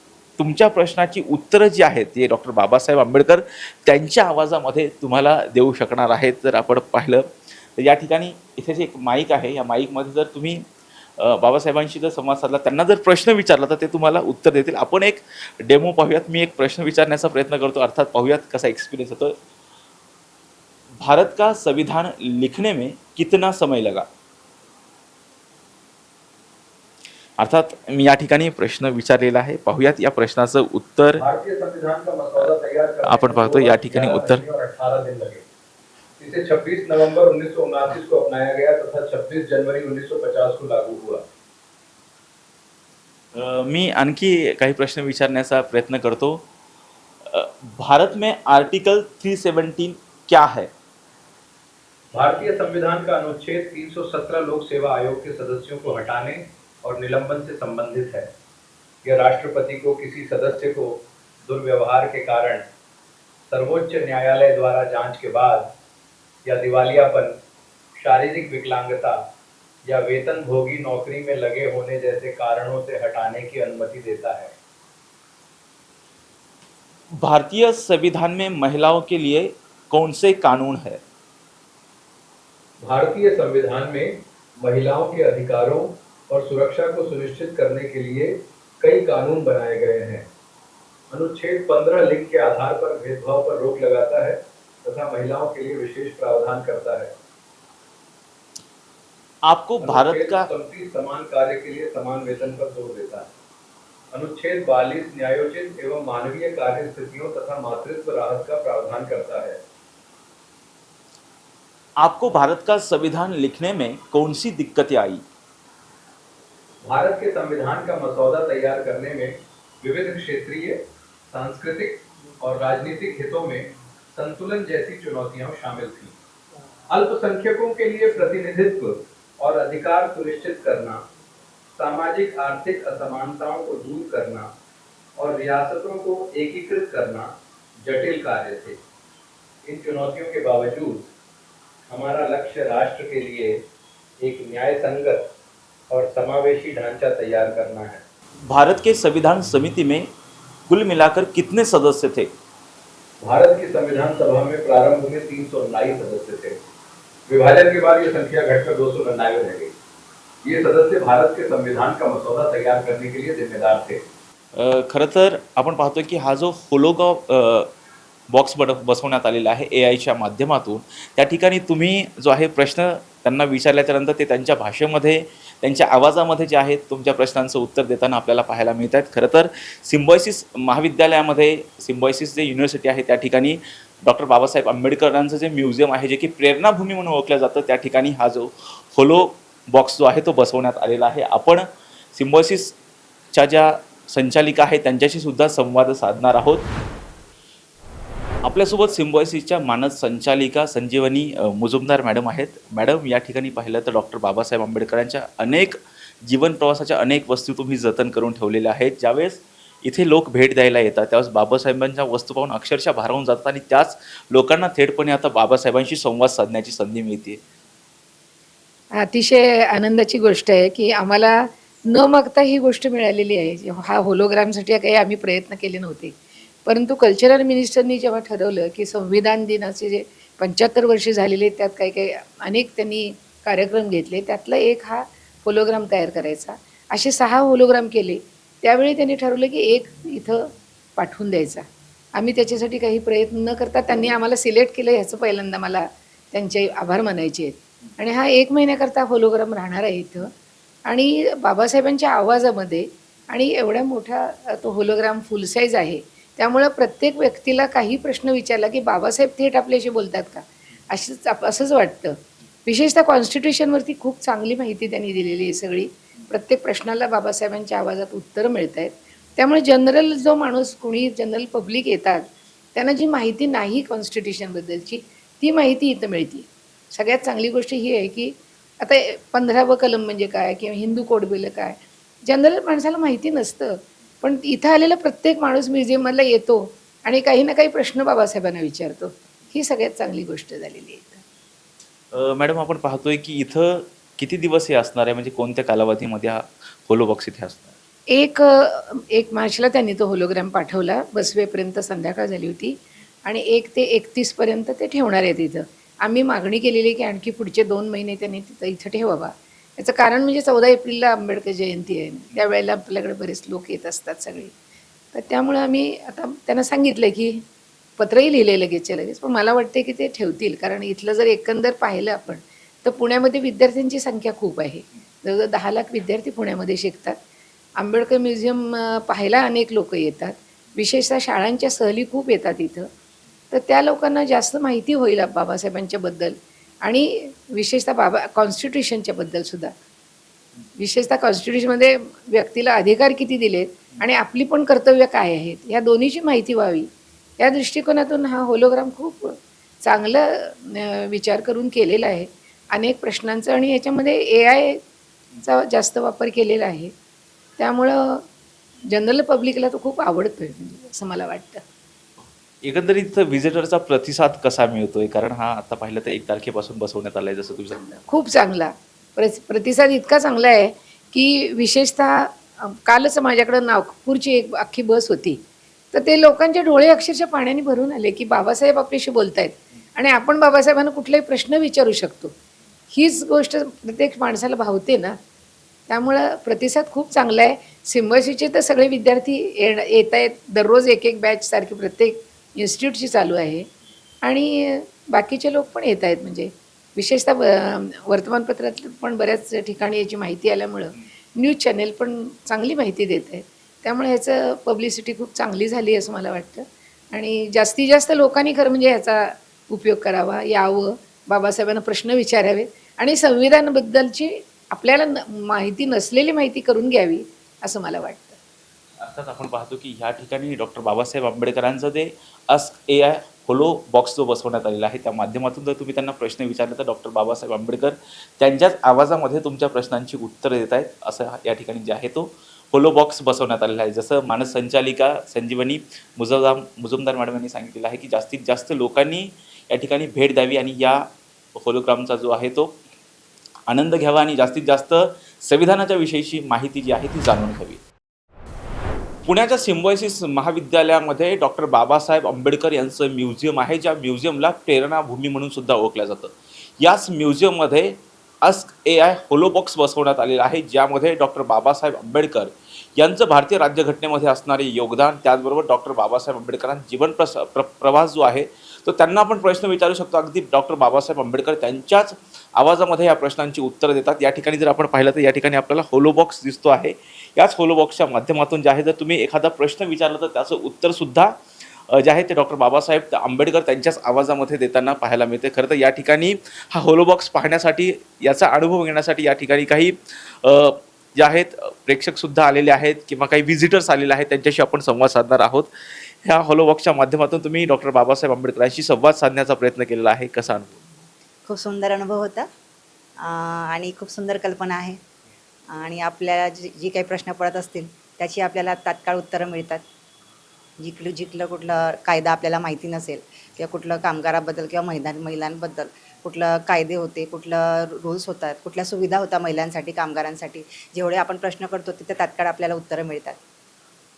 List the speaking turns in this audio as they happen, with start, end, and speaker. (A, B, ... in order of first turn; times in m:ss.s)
0:00.4-0:07.2 A
0:07.8-0:10.6 A
0:11.2-0:19.3 A
0:21.0-0:24.0 A
0:27.4-0:31.2 A
0:31.2-0:35.4 B
0:32.3-0:34.4 A
0:36.2-0:41.2 B
0:43.3-0:46.4 A
0:47.2-0:50.7 A
0:52.1-0:58.3 B
0:59.0-1:02.6 B
1:03.5-1:05.6 B
1:06.4-1:07.3 B
1:08.0-1:09.2 B
1:09.8-1:14.5 B
1:17.2-1:21.0 A
1:22.8-1:30.2 B
1:31.1-1:37.1 B
1:39.5-1:40.5 A
1:39.8-1:43.3 B
1:44.1-1:49.6 B
1:52.0-1:55.2 A
1:56.8-2:00.8 B
2:01.3-2:06.1 B
2:06.9-2:11.0 B
2:11.7-2:14.5 B
2:15.2-2:17.3 B
2:17.8-2:18.8 B
2:19.6-2:21.1 B
2:21.9-2:23.6 B
2:24.2-2:25.2 B
2:25.9-2:28.0 B
2:28.5-2:30.1 A
2:30.7-2:32.3 A
2:33.2-2:36.6 B
2:37.3-2:39.7 B
2:40.4-2:44.0 B
2:44.5-2:47.7 A
2:48.3-3:11.6 A
3:12.1-3:12.7 A
3:13.3-3:16.7 A
3:18.4-3:37.4 A
3:39.0-4:01.6 C
4:02.1-4:10.3 C
4:10.8-4:32.2 C
4:32.7-4:51.2 C
4:52.1-4:57.7 A
4:58.1-5:14.5 C
5:15.1-5:17.4 C
5:18.0-5:27.2 C
5:27.8-5:32.9 C
5:33.5-5:39.7 C
5:40.8-5:46.9 C
5:47.4-5:54.8 C
5:55.4-5:56.9 C
5:57.6-5:58.2 C
5:58.9-6:01.6 C
6:02.6-6:07.8 A
6:07.7-6:15.4 C
6:15.9-6:22.3 C
6:22.9-6:25.2 C
6:25.9-6:33.6 C
6:34.2-6:58.4 C
6:59.0-7:21.0 A
7:21.6-7:22.8 A
7:23.7-7:27.8 A
7:29.2-8:01.3 A
8:01.9-8:15.7 A
8:16.2-8:20.8 A
8:21.5-8:22.5 D
8:23.2-8:25.0 D
8:25.7-8:29.8 D
8:30.8-8:43.4 D